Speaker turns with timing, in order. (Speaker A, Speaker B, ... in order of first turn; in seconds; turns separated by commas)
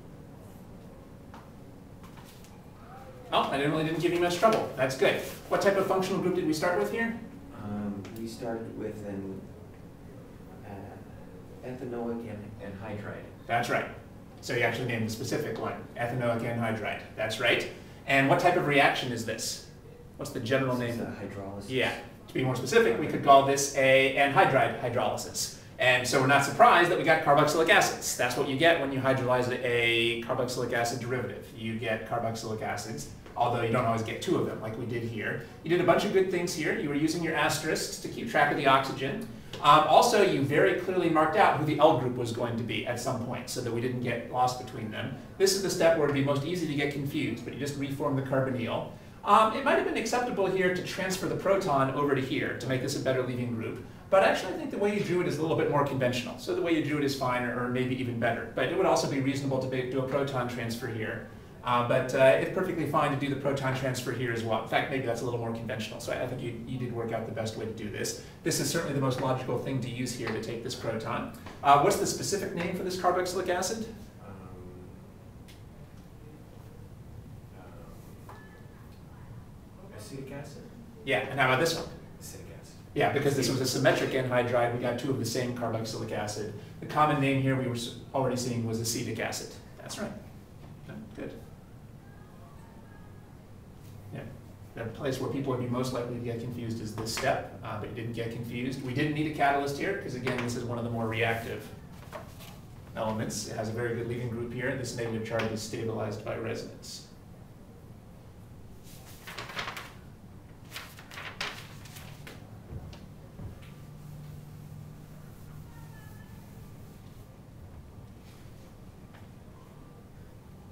Speaker A: 3.3-7.2, Speaker B: 7.5-9.6, Speaker B: 10.6-13.4, Speaker A: 13.5-13.9, Speaker A: 14.4-19.7, Speaker A: 20.2-21.1, Speaker B: 20.7-22.1, Speaker A: 21.7-73.9, Speaker B: 22.8-23.3, Speaker B: 74.2-75.1, Speaker B: 77.5-78.4, Speaker B: 79.9-80.8, Speaker A: 81.0-81.9, Speaker B: 82.0-83.8, Speaker A: 82.9-90.1, Speaker A: 90.9-91.4, Speaker A: 94.1-101.7, Speaker A: 102.9-107.0